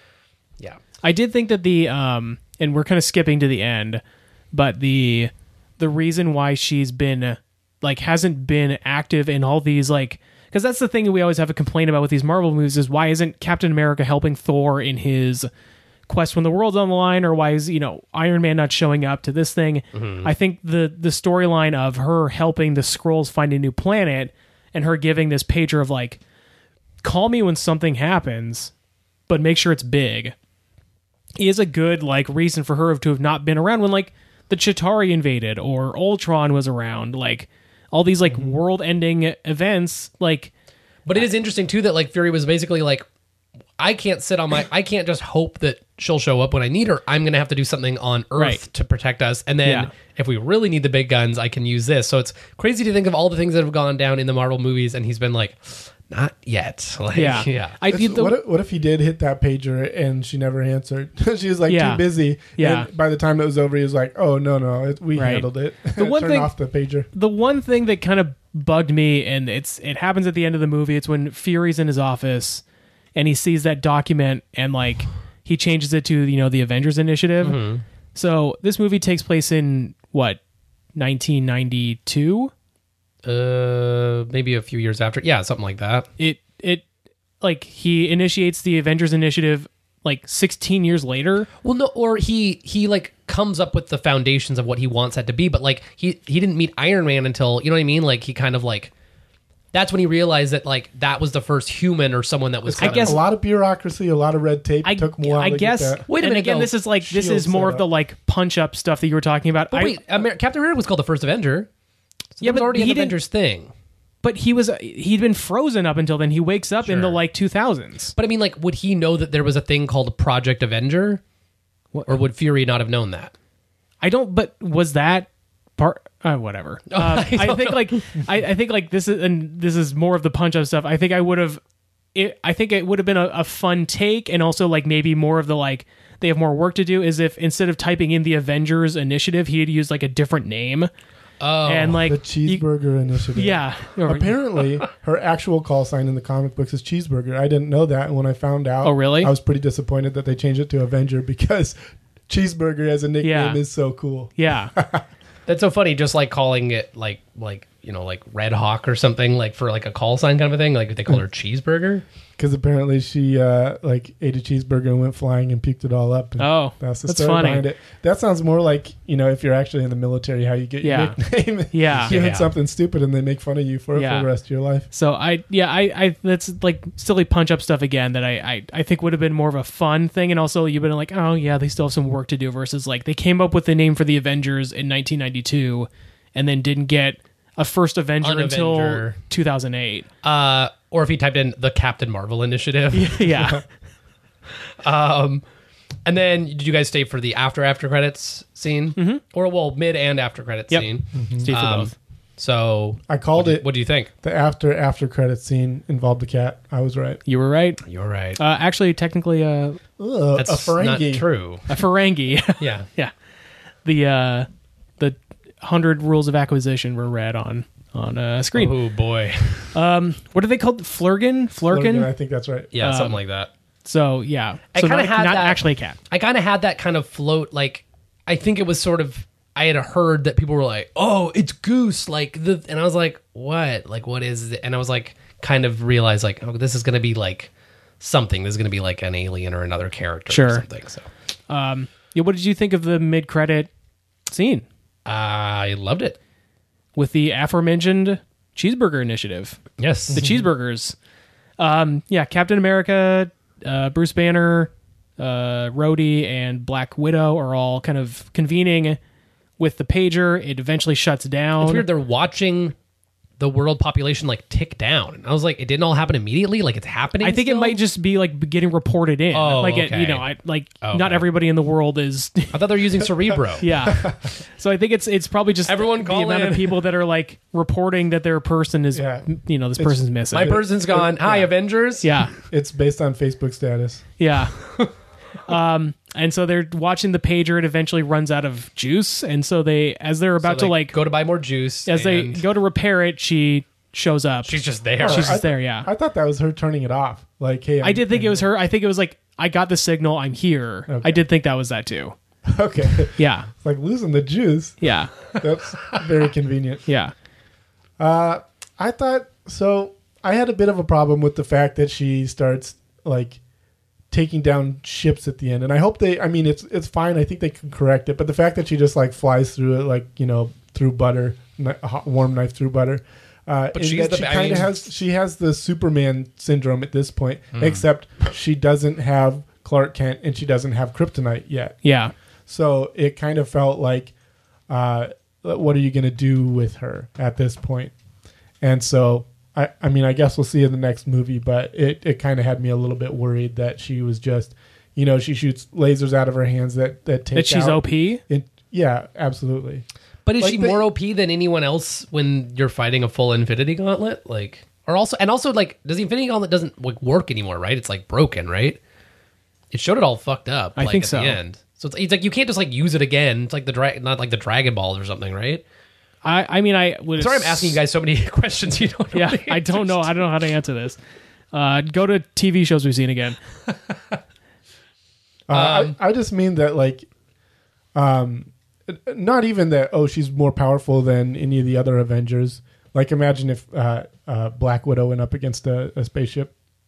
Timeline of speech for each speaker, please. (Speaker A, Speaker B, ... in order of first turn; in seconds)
Speaker A: 1.0-15.5, 16.1-26.2, 27.0-28.7, 29.3-30.4, 31.4-40.5, 48.4-48.6, 49.6-49.9, 57.1-58.4, 61.7-62.9, 65.2-66.5, 67.1-72.6, 73.2-77.6, 78.2-80.4, 81.0-82.5, 86.2-86.8, 87.4-91.5, 102.8-103.2, 104.8-110.0, 112.4-113.2, 114.2-118.2, 124.0-131.6, 132.2-140.9, 141.7-142.7, 143.3-144.4, 148.8-149.3, 153.2-153.6, 154.4-154.7, 166.4-167.7, 170.8-171.2, 171.7-172.1, 173.9-174.3, 174.9-190.1, 192.9-193.6, 199.0-199.2, 200.7-201.9, 207.3-207.8, 208.4-209.8, 211.7-213.1, 213.8-218.8, 219.7-222.1, 222.8-223.2, 223.8-226.0, 240.3-240.6, 241.5-243.7, 244.3-244.7, 246.9-251.0, 251.6-259.0, 259.6-261.9, 267.2-272.6, 273.6-280.6, 282.0-282.3, 284.2-284.8, 285.5-290.9, 291.9-295.9, 297.8-302.2, 303.2-303.5, 304.8-305.1, 306.9-307.1, 331.8-332.1, 347.3-348.2, 360.8-361.4, 366.2-367.8, 369.1-371.0, 371.5-373.4
Speaker B: 19.9-20.3, 41.1-43.0, 43.8-57.8, 77.4-77.8, 83.2-86.1, 91.6-98.9, 99.7-103.2, 106.1-106.7, 109.7-111.7, 112.3-113.7, 116.8-117.2, 118.2-121.2, 122.1-123.3, 126.9-128.1, 141.4-142.0, 155.5-162.0, 172.0-172.5, 188.2-189.2, 190.2-193.5, 194.8-195.4, 196.1-204.1, 207.9-208.4, 210.4-211.7, 212.6-212.9, 218.6-219.7, 222.7-223.5, 224.7-241.1, 245.1-246.2, 249.8-250.3, 261.6-262.8, 263.4-267.8, 269.3-270.3, 270.8-271.2, 272.5-273.7, 275.7-276.8, 280.3-282.1, 290.4-292.4, 294.4-295.4, 323.7-324.8, 327.5-327.8, 350.3-358.8, 359.7-365.6, 367.2-370.2, 373.9-374.2, 375.5-375.9
Speaker C: 57.9-67.1, 102.7-106.0, 107.0-107.9, 142.1-151.8, 152.3-155.1, 162.4-174.9, 201.2-201.5, 203.1-203.7, 204.2-207.2, 210.0-211.3, 221.7-222.7, 273.8-274.3, 278.9-281.5, 282.5-284.1, 295.0-298.5, 300.9-301.2, 302.5-306.9, 308.0-313.4, 314.1-331.8, 332.5-334.1, 334.7-337.9, 338.6-349.9, 350.4-350.8, 375.5-377.1, 377.9-386.5